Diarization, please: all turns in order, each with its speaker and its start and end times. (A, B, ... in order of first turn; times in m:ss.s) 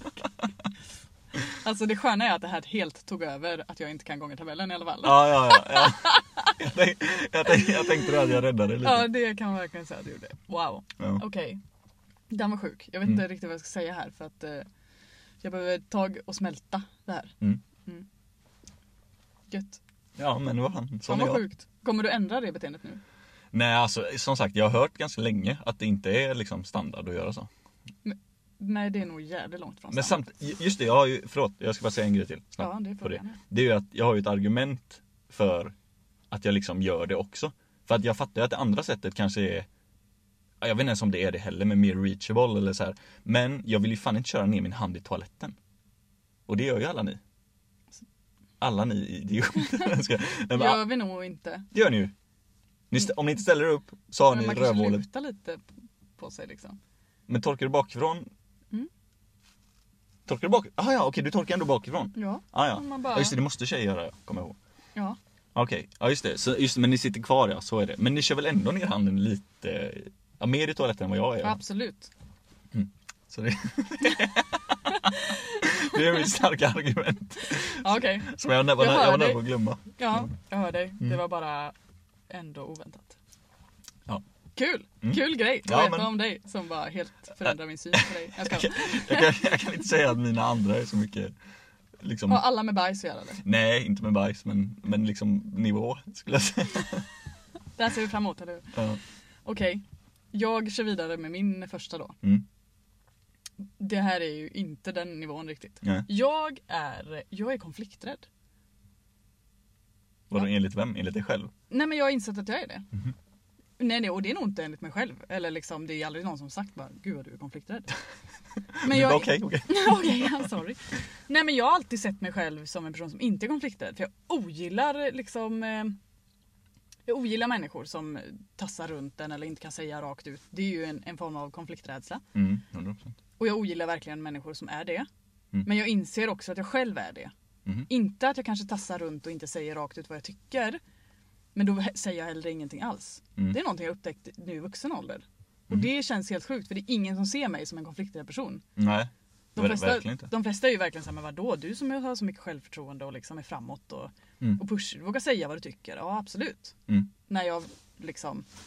0:01.5-0:06.5 A
0:05.0-0:09.1 B
0:07.5-0:08.0 A
0:08.8-0:11.6 A
0:12.3-0:14.7 A
0:15.4-0:18.1 A
0:19.5-0:19.8 A
0:20.2-0:21.4 B
0:21.1-0:23.0 A
0:23.5-0:27.5 B
0:28.0-0:30.2 A
0:29.9-0:35.8 B
0:32.6-0:33.4 A
0:36.3-0:39.7 B
0:40.6-0:45.6 B
0:46.5-0:47.2 B
0:48.6-0:50.9 B
0:50.5-0:51.7 A
0:51.7-0:52.1 B
0:52.9-0:55.0 B
0:54.2-0:55.6 A
0:56.2-0:56.8 A
0:57.3-0:58.3 B
1:00.3-1:04.6 B
1:02.2-1:03.4 A
1:05.6-1:11.6 B
1:11.4-1:12.1 A
1:12.7-1:19.9 B
1:17.7-1:19.4 A
1:20.0-1:21.8 A
1:22.3-1:23.2 A
1:24.6-1:29.4 A
1:25.0-1:26.1 B
1:28.0-1:31.3 B
1:32.0-1:32.4 B
1:32.3-1:33.4 A
1:33.4-1:37.1 B
1:37.8-1:38.8 A
1:38.7-1:39.0 B
1:39.4-1:42.2 A
1:43.8-1:48.3 A
1:50.3-1:51.5 B
1:51.7-1:52.9 A
1:53.8-1:57.9 A
1:58.7-2:00.4 B
1:58.8-2:06.0 A
2:07.1-2:12.2 A
2:12.4-2:13.2 B
2:13.4-2:15.1 A
2:15.6-2:17.3 A
2:17.9-2:20.8 A
2:21.6-2:28.6 A
2:28.8-2:30.3 B
2:29.6-2:36.8 A
2:37.3-2:38.5 A